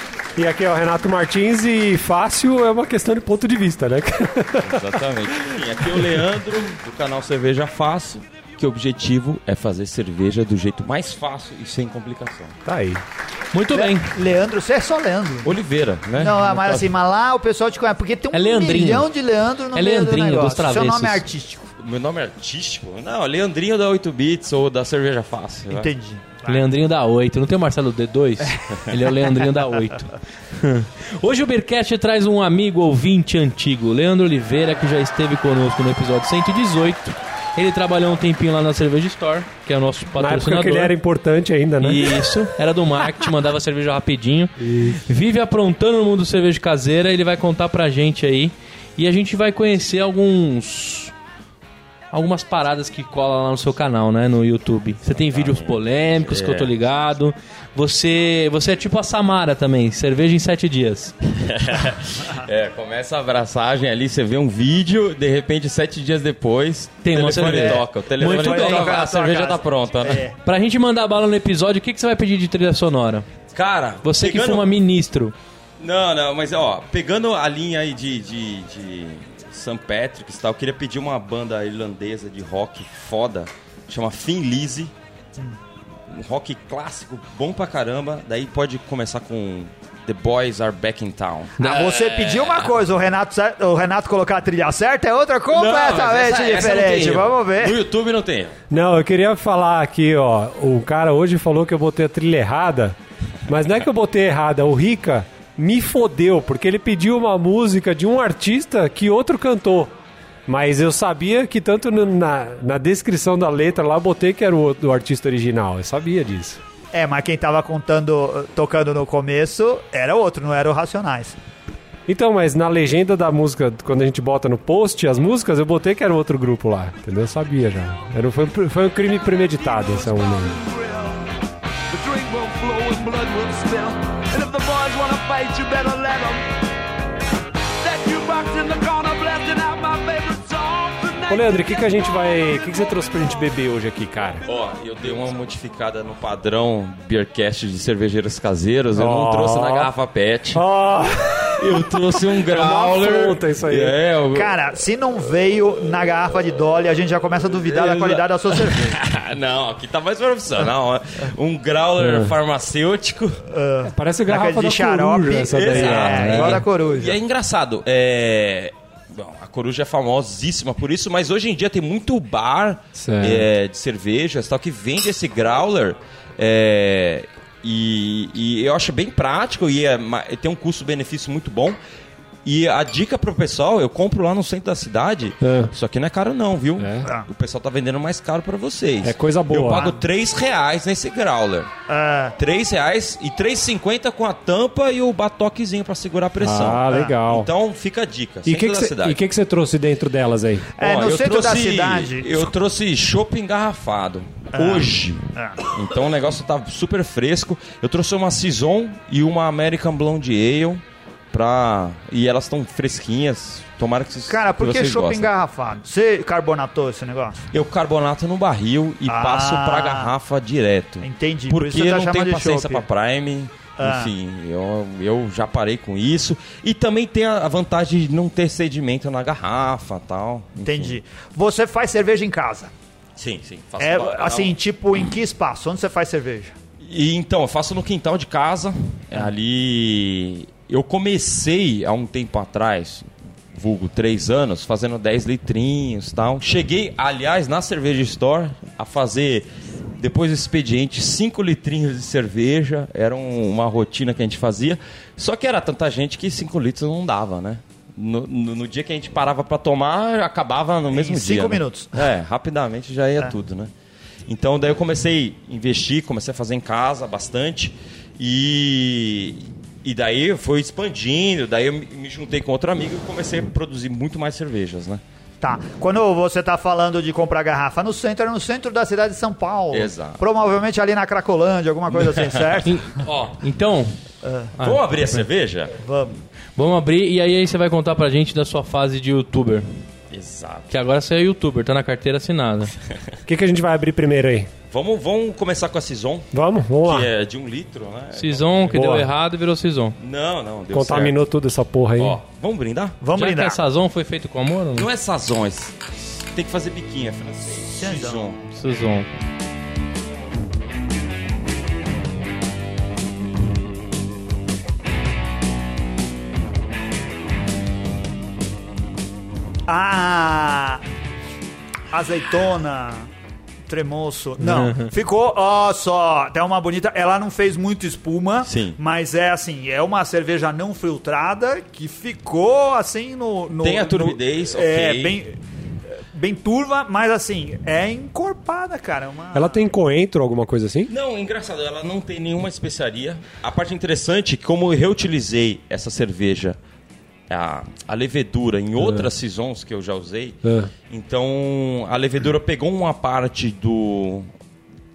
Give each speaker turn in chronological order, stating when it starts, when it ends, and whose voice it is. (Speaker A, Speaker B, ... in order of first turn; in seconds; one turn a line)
Speaker A: 0.4-5.0
Speaker B: 4.6-12.6
Speaker A: 12.6-13.0
Speaker C: 13.5-14.1
Speaker D: 13.7-15.5
Speaker B: 15.4-16.4
Speaker D: 16.1-21.7
Speaker C: 16.5-16.9
Speaker C: 18.3-19.1
Speaker C: 19.7-21.2
Speaker B: 21.8-25.9
Speaker D: 25.7-26.7
Speaker C: 26.4-40.9
Speaker A: 40.2-42.2
Speaker C: 41.8-51.1
Speaker A: 44.6-45.0
Speaker C: 52.1-61.1
Speaker B: 55.3-56.7
Speaker B: 61.3-70.3
Speaker C: 67.0-69.0
Speaker D: 67.4-70.3
Speaker C: 70.4-73.3
Speaker B: 73.5-74.7
Speaker C: 74.0-75.3
Speaker B: 75.8-84.9
Speaker B: 86.1-92.7
Speaker D: 91.6-97.8
Speaker B: 95.5-98.5
Speaker A: 98.7-103.0
Speaker A: 103.5-109.9
Speaker A: 110.5-116.6
Speaker D: 116.9-121.3
Speaker A: 122.1-130.6
Speaker E: 129.3-131.2
Speaker E: 131.9-136.5
Speaker E: 137.8-142.1
Speaker A: 141.3-144.4
Speaker B: 144.4-150.6
Speaker A: 148.9-149.9
Speaker A: 150.5-153.9
Speaker B: 151.6-154.5
Speaker D: 154.3-159.0
Speaker B: 157.7-163.4
Speaker A: 162.0-162.3
Speaker D: 163.5-167.2
Speaker A: 163.8-166.6
Speaker B: 165.5-181.8
Speaker A: 172.9-173.5
Speaker B: 182.4-191.7
Speaker A: 185.4-185.7
Speaker A: 186.8-187.1
Speaker A: 189.0-189.9
Speaker D: 189.7-190.0
Speaker D: 191.9-192.3
Speaker B: 192.4-199.2
Speaker A: 196.4-197.5
Speaker D: 196.9-197.1
Speaker A: 198.4-200.7
Speaker D: 200.8-202.5
Speaker B: 200.8-215.3
Speaker D: 204.5-205.6
Speaker D: 214.3-217.4
Speaker B: 217.5-230.9
Speaker D: 219.1-220.1
Speaker D: 221.0-222.8
Speaker D: 223.8-224.1
Speaker D: 230.6-232.7
Speaker B: 233.2-234.5
Speaker D: 233.8-236.5
Speaker B: 236.8-249.4
Speaker B: 250.0-263.7
Speaker D: 260.9-262.1
Speaker B: 264.3-275.0
Speaker D: 275.4-283.0
Speaker B: 279.7-280.2
Speaker B: 281.9-282.5
Speaker C: 282.6-283.9
Speaker D: 284.2-284.5
Speaker C: 284.6-285.1
Speaker B: 284.6-285.8
Speaker D: 285.8-286.2
Speaker C: 286.6-289.7
Speaker B: 290.1-290.7
Speaker C: 290.7-292.7
Speaker A: 293.2-294.5
Speaker B: 294.7-298.7
Speaker A: 296.3-297.1
Speaker C: 298.1-300.0
Speaker A: 298.7-299.1
Speaker B: 300.0-301.2
Speaker A: 300.7-302.2
Speaker B: 302.0-303.0
Speaker D: 303.0-303.6
Speaker C: 303.1-304.9
Speaker B: 304.8-308.4
Speaker D: 307.8-308.4
Speaker C: 308.5-309.1
Speaker D: 319.7-320.8
Speaker D: 321.9-323.1
Speaker D: 323.7-335.4
Speaker C: 324.4-324.9
Speaker B: 328.4-328.8
Speaker B: 333.6-335.2
Speaker D: 336.1-339.7
Speaker A: 339.3-340.9
Speaker B: 340.9-346.6
Speaker B: 347.3-354.3
Speaker A: 348.8-349.1
Speaker A: 350.4-350.7